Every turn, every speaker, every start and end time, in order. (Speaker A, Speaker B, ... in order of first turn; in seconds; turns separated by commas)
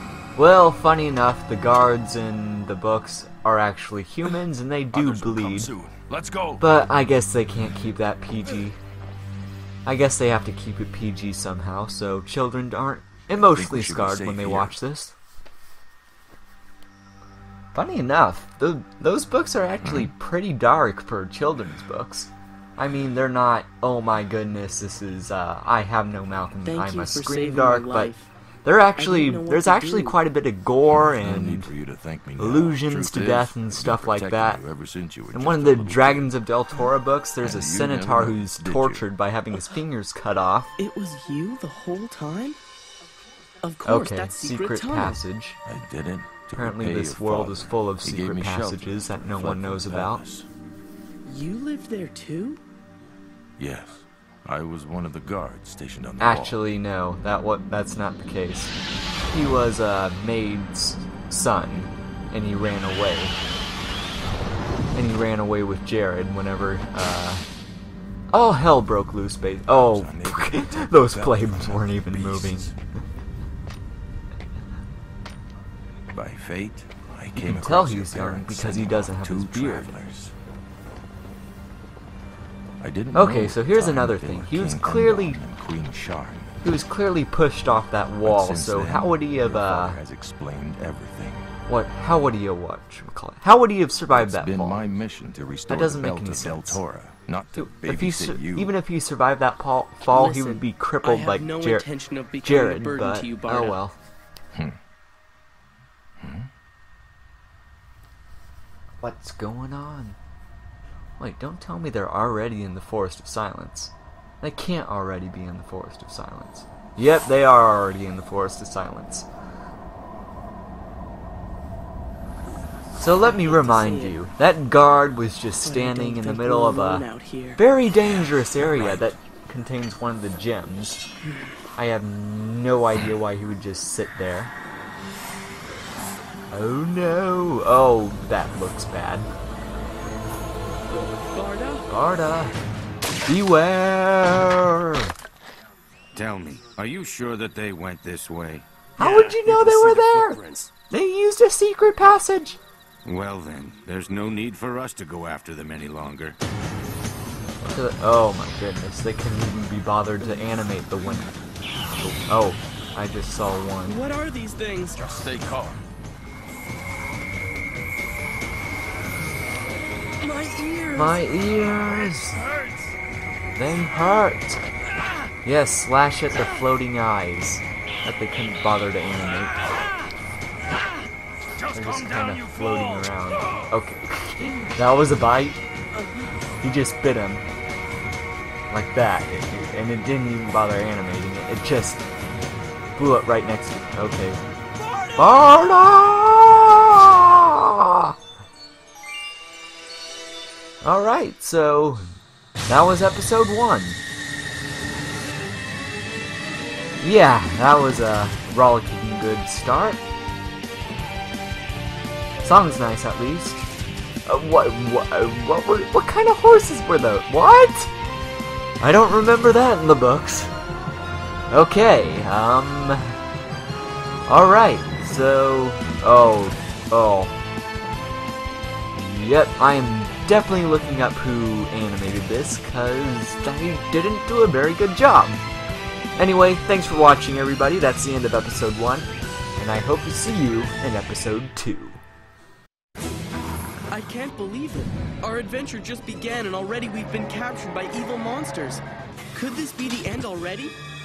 Speaker A: 0.3-5.7, Speaker B: 4.9-6.7, Speaker A: 6.6-8.8, Speaker A: 9.8-15.1, Speaker B: 13.4-14.8, Speaker A: 17.7-28.1, Speaker B: 19.8-20.1, Speaker C: 26.6-28.3, Speaker A: 28.6-31.7, Speaker C: 29.0-30.2, Speaker B: 30.9-36.4, Speaker A: 32.4-34.6, Speaker A: 35.3-40.7, Speaker B: 37.4-39.1, Speaker C: 40.8-42.6, Speaker C: 43.6-45.2, Speaker A: 43.8-45.6, Speaker B: 45.6-50.5, Speaker A: 46.5-50.2, Speaker C: 51.2-52.6, Speaker B: 53.6-56.6, Speaker A: 56.2-58.7, Speaker A: 59.3-63.4, Speaker A: 64.9-67.5, Speaker A: 68.3-72.7, Speaker B: 69.7-72.8, Speaker B: 76.1-80.3, Speaker A: 77.3-79.9, Speaker B: 82.8-86.5, Speaker A: 83.1-85.4, Speaker A: 86.6-90.0, Speaker B: 88.2-91.5, Speaker A: 91.7-94.8, Speaker B: 94.1-98.7, Speaker A: 95.7-96.8, Speaker A: 97.5-101.9, Speaker C: 100.1-103.8, Speaker A: 102.4-104.0, Speaker B: 104.5-104.8, Speaker B: 106.2-106.5, Speaker A: 109.0-110.2, Speaker A: 111.2-119.3, Speaker A: 123.0-131.0, Speaker C: 123.2-124.2, Speaker C: 125.6-127.6, Speaker B: 128.2-129.0, Speaker C: 131.2-131.5, Speaker A: 131.8-134.5, Speaker A: 136.5-139.3, Speaker C: 140.9-141.9, Speaker A: 141.9-142.6, Speaker A: 143.2-145.1, Speaker D: 146.1-148.7, Speaker A: 149.0-152.6, Speaker B: 149.0-150.1, Speaker C: 149.2-150.7, Speaker D: 153.0-156.4, Speaker A: 157.6-161.3, Speaker A: 162.2-164.0, Speaker C: 163.8-165.2, Speaker B: 165.0-165.8, Speaker C: 170.2-171.4, Speaker A: 170.9-172.4, Speaker C: 172.3-172.9, Speaker A: 173.5-174.7, Speaker A: 175.4-179.6, Speaker C: 179.7-180.0, Speaker B: 181.6-182.9, Speaker A: 181.7-185.6, Speaker C: 185.9-186.3, Speaker A: 186.6-187.5, Speaker A: 188.7-192.1, Speaker A: 192.9-194.4, Speaker C: 194.8-195.5, Speaker A: 195.2-198.2, Speaker A: 200.8-202.1, Speaker A: 202.7-204.0, Speaker A: 207.0-210.0, Speaker A: 212.4-213.7, Speaker A: 214.2-217.9, Speaker A: 218.8-220.5, Speaker A: 221.5-223.2, Speaker A: 224.3-227.3, Speaker A: 228.9-235.4, Speaker A: 236.2-242.0, Speaker C: 243.9-248.8, Speaker C: 249.3-250.8